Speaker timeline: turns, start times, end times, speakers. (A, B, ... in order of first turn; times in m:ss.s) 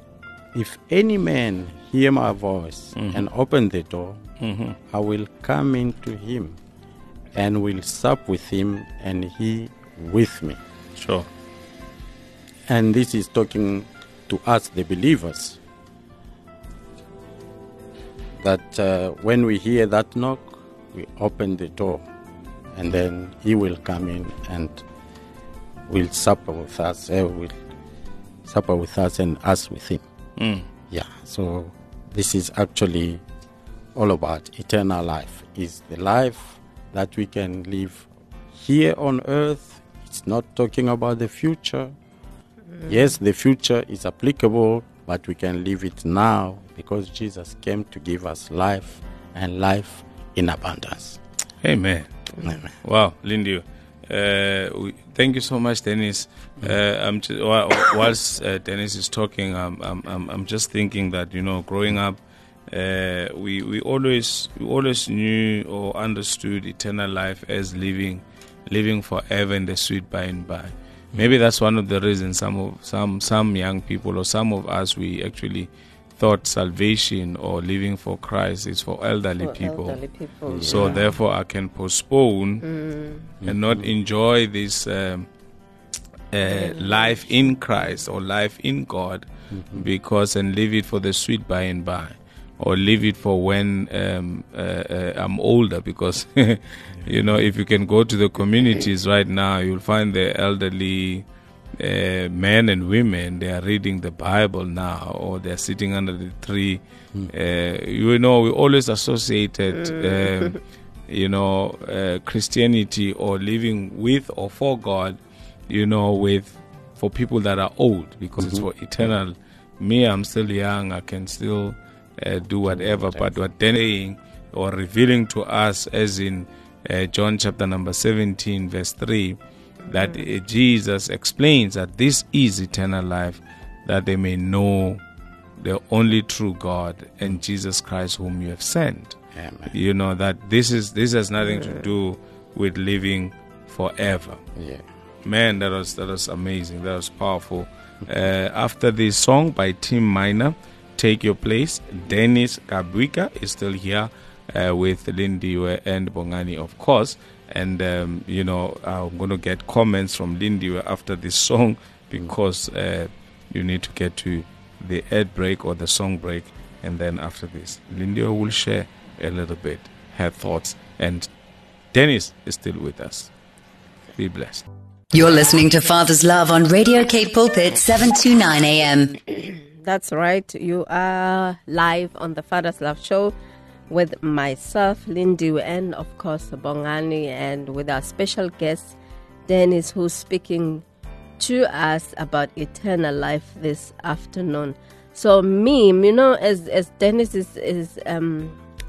0:00.5-0:04.2 A
0:03.0-0:03.2 B
0:04.4-0:04.8 B
0:04.9-0:06.6 A
0:07.3-0:10.6 A
0:11.0-0:11.3 B
0:12.7-0:15.6 A
0:18.4-0:22.0 A
0:22.7-0:24.8 A
0:25.9-0:27.6 A
0:28.4-0:30.0 A
0:30.4-0:30.6 B
0:30.9-0:33.2 A
0:33.9-0:41.9 A
0:42.8-0:51.2 A
0:51.6-0:52.1 B
0:52.8-1:02.2 B
1:02.7-1:20.0 B
1:19.4-1:21.1 C
1:20.5-1:21.0 A
1:20.6-1:22.6 B
1:22.6-1:23.2 C
1:23.4-1:23.9 A
1:23.4-1:25.3 B
1:26.3-1:41.2 B
1:26.5-1:27.2 C
1:29.5-1:29.8 A
1:41.8-1:55.2 B
1:55.7-2:15.0 B
1:58.4-1:58.6 A
2:02.7-2:03.3 A
2:15.6-2:19.2 B
2:19.3-2:19.7 A
2:19.7-2:24.4 B
2:24.6-2:24.8 A
2:25.2-2:51.3 B
2:51.9-2:53.3 B
2:54.2-2:54.6 B
2:55.1-2:59.2 D
2:59.3-3:03.3 C
3:03.9-3:09.0 C
3:09.5-3:10.8 C
3:11.4-3:18.6 C